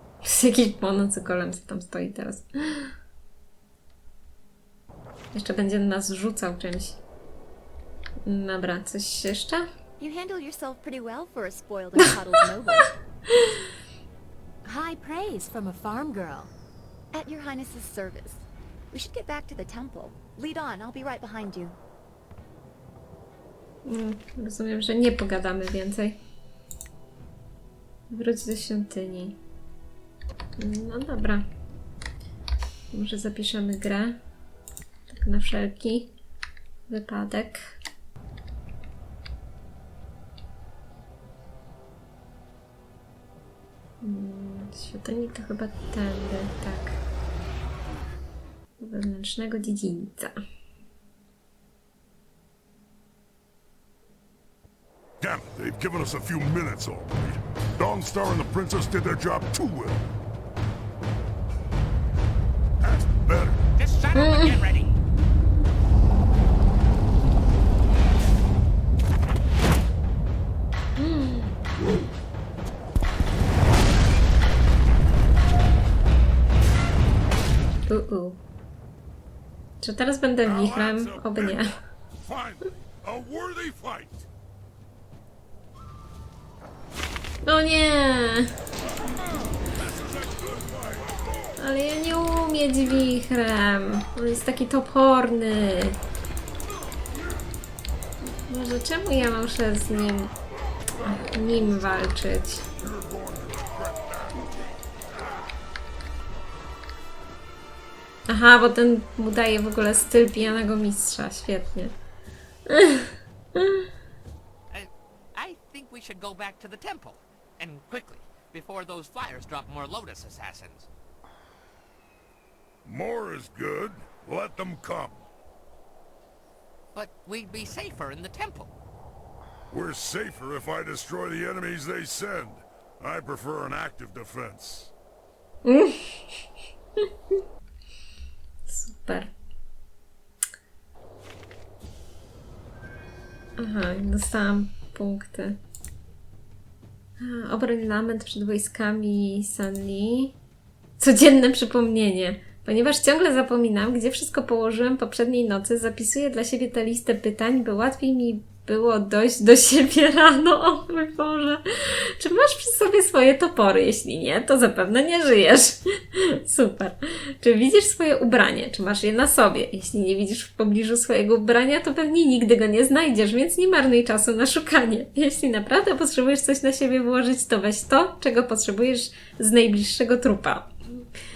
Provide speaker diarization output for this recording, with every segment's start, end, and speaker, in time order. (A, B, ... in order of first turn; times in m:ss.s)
0:00.2-0:02.9 A
0:05.3-0:07.0 A
0:08.2-0:09.7 A
0:10.0-0:12.9 B
0:14.6-0:16.5 B
0:17.1-0:21.8 B
0:23.8-0:26.2 A
0:28.1-0:29.4 A
0:30.6-0:31.4 A
0:32.9-0:34.2 A
0:35.1-0:36.1 A
0:36.9-0:37.7 A
0:44.0-0:47.0 A
0:48.8-0:50.3 A
0:55.2-1:00.0 C
1:02.8-1:03.7 C
1:03.8-1:05.0 D
1:04.1-1:04.5 A
1:11.0-1:11.5 A
1:17.9-1:18.4 A
1:19.8-1:21.8 A
1:20.4-1:24.3 C
1:27.4-1:28.5 A
1:29.2-1:31.5 C
1:31.6-1:36.0 A
1:38.5-1:40.3 A
1:41.0-1:42.7 A
1:42.8-1:44.6 C
1:48.3-1:51.9 A
1:52.7-1:53.8 A
1:54.7-2:00.9 D
2:02.8-2:05.2 C
2:06.9-2:08.7 D
2:09.7-2:14.9 C
2:15.6-2:16.2 A
2:18.7-2:19.3 A
2:23.6-2:25.6 A
2:27.2-2:30.3 A
2:31.0-3:00.7 A